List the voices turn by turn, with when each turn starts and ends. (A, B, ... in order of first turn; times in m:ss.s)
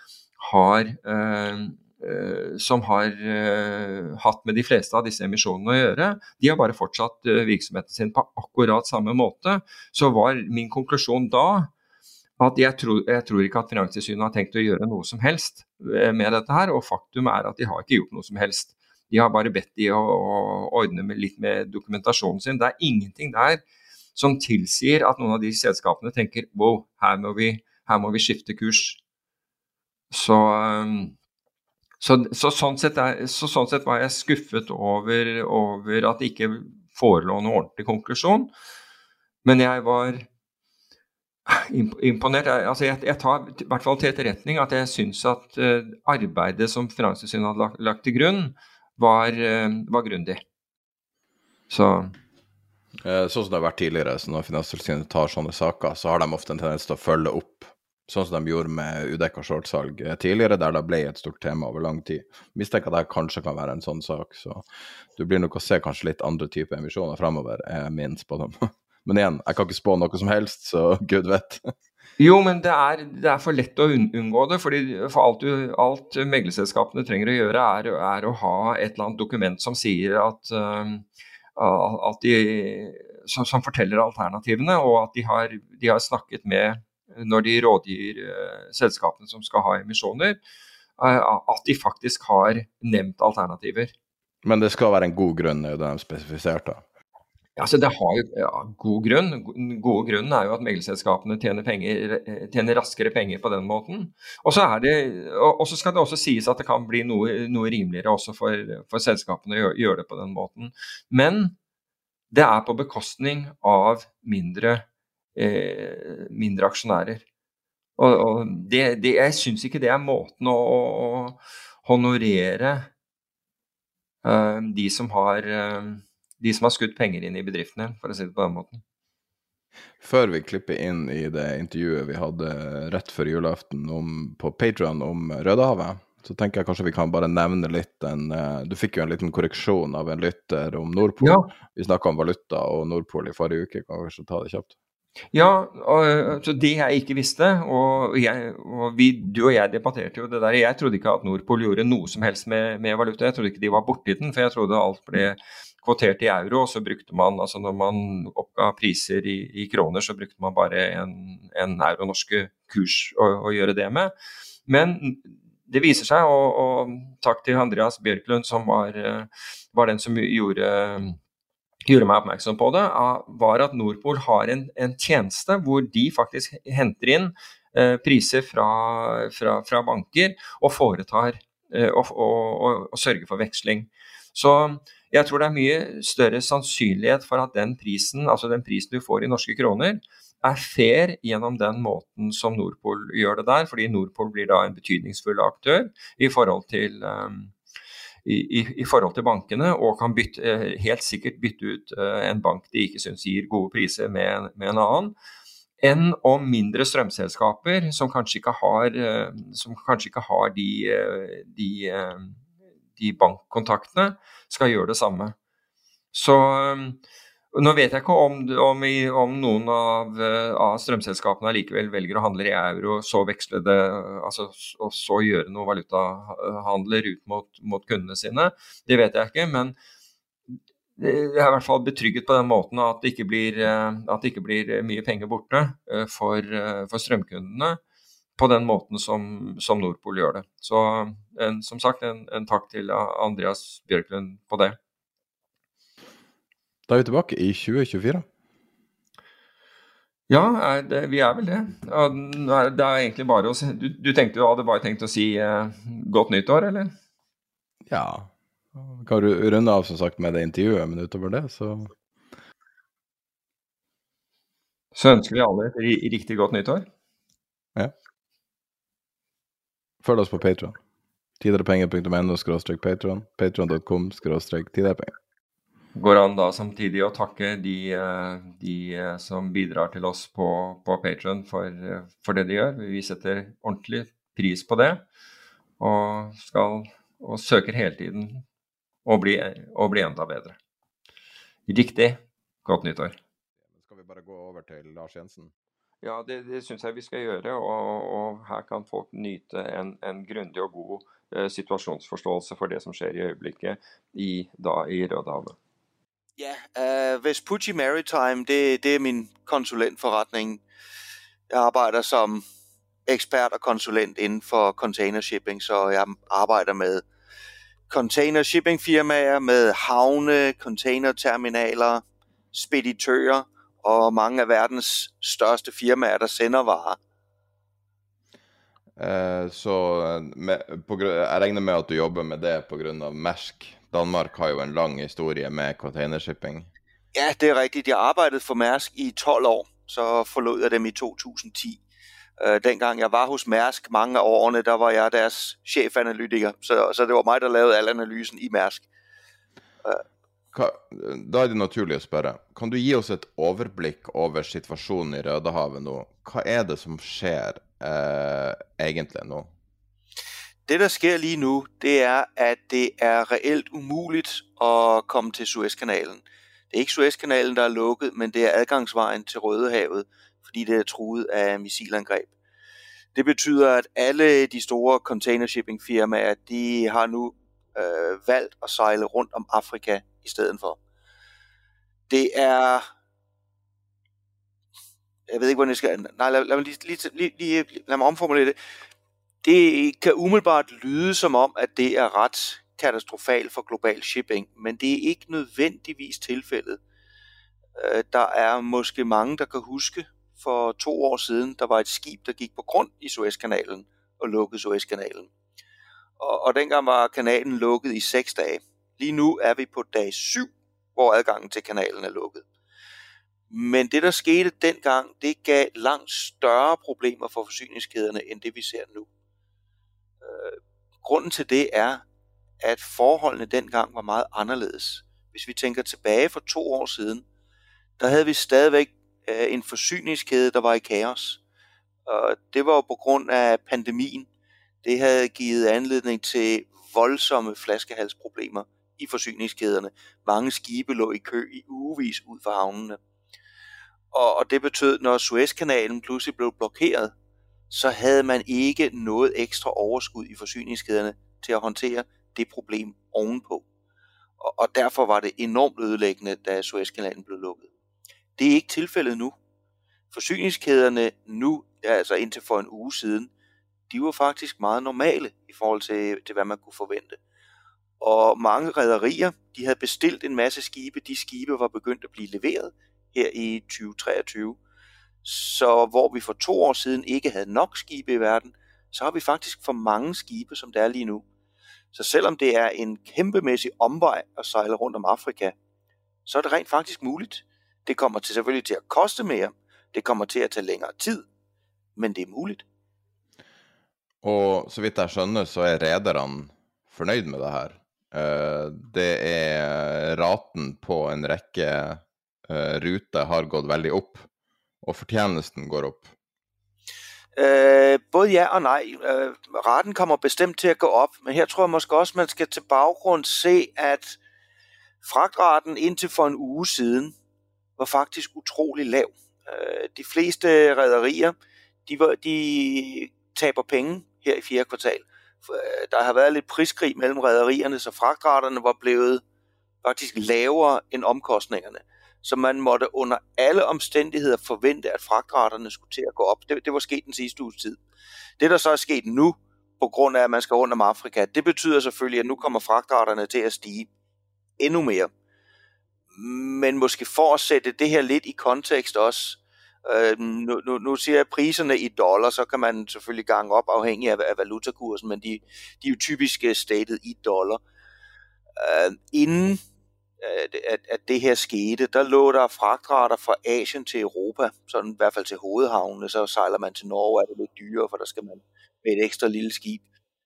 0:00.4-0:11.7 A
0:12.4-0:23.6 A
0:24.1-0:29.0 A
0:30.1-0:31.1 A
0:32.0-0:38.5 A
0:39.4-0:40.3 A
0:41.5-0:50.4 A
0:51.7-0:52.1 A
0:53.0-1:11.7 B
1:12.2-1:30.4 A
1:31.0-1:33.9 A
1:34.4-1:36.8 B
1:37.6-1:51.5 A
1:52.3-1:54.8 A
1:55.4-1:57.2 A
1:58.0-2:02.9 A
2:04.2-2:08.8 A
2:10.0-2:24.7 B
2:21.2-2:21.5 A
2:25.3-2:44.1 A
2:44.7-2:51.2 A
2:51.8-3:17.5 A
3:18.2-3:25.1 A
3:25.8-3:32.4 A
3:33.0-3:35.3 A
3:36.1-3:37.0 A
3:37.5-3:49.7 A
3:50.5-3:57.8 A
3:58.4-4:04.8 A
4:06.9-4:08.3 B
4:10.3-4:16.9 A
4:17.9-4:21.9 B
4:24.9-4:26.9 A
4:30.0-4:30.8 B
4:31.4-4:35.1 B
4:35.9-4:45.0 A
4:45.8-4:48.4 A
4:49.0-4:50.6 A
4:51.7-4:53.2 A
4:53.7-4:55.5 B
4:56.0-5:05.6 A
5:06.4-5:10.6 C
5:11.5-5:12.4 C
5:13.1-5:17.0 C
5:17.9-5:27.0 C
5:29.0-5:36.7 B
5:37.1-5:41.8 C
5:42.4-5:48.9 C
5:50.5-5:59.5 B
6:00.7-6:12.3 C
6:13.1-6:20.8 C
6:22.1-6:22.9 C
6:25.3-6:28.6 C
6:29.4-6:36.8 C
6:37.8-6:45.3 C
6:46.2-6:52.4 C
6:53.5-6:59.1 C
7:00.2-7:02.0 C
7:02.6-7:07.2 C
7:08.0-7:11.4 C
7:12.0-7:14.3 C
7:14.8-7:23.0 C
7:24.1-7:27.1 C
7:27.7-7:33.6 C
7:34.4-7:37.7 C
7:38.4-7:39.3 C
7:40.1-7:43.3 C
7:43.9-7:47.2 C
7:48.0-7:54.6 C
7:55.2-8:01.2 C
8:01.9-8:05.5 C
8:06.2-8:11.2 C
8:12.0-8:12.6 C
8:14.2-8:24.3 B
8:24.8-8:26.1 B
8:27.4-8:34.2 C
8:35.0-8:37.1 C
8:37.8-8:49.2 C
8:49.8-8:57.8 C
8:58.4-9:03.9 C
9:04.6-9:05.1 C
9:06.1-9:17.6 C
9:18.6-9:19.6 C
9:20.2-9:29.8 C